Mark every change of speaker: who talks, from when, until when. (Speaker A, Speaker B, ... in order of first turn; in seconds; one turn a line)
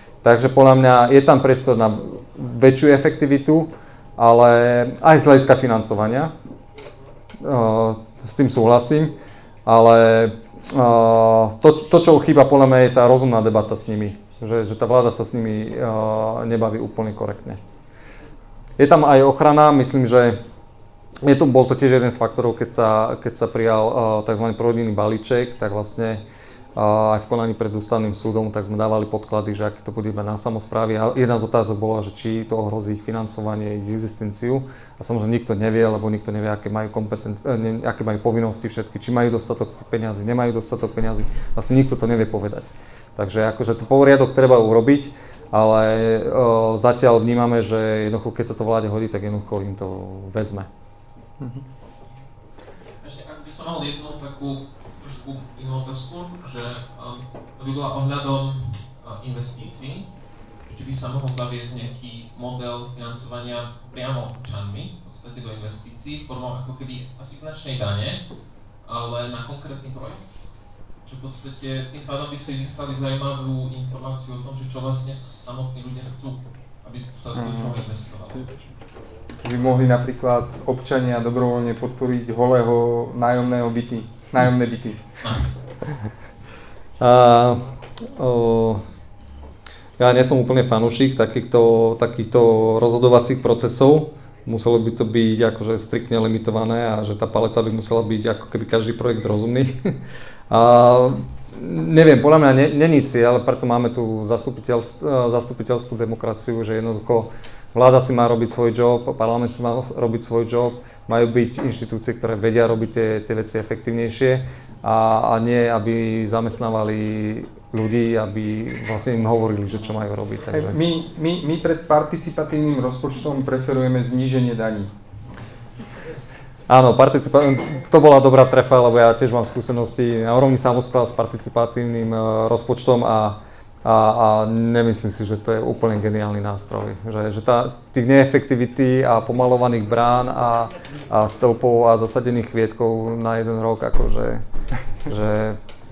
Speaker A: 0.2-6.3
Speaker A: 7.4-9.2
Speaker A: 9.7-17.6
Speaker A: 18.8-20.4
Speaker A: 21.2-26.2
Speaker A: 26.7-50.7
Speaker B: 53.0-60.1
Speaker B: 60.6-68.2
Speaker B: 68.8-70.2
Speaker B: 71.0-78.6
Speaker C: 77.3-77.8
Speaker C: 79.4-85.0
Speaker B: 85.2-85.5
Speaker A: 87.0-88.8
Speaker A: 90.0-99.9
Speaker A: 100.5-120.8
Speaker C: 120.5-124.9
Speaker A: 126.7-144.4
Speaker A: 145.1-145.6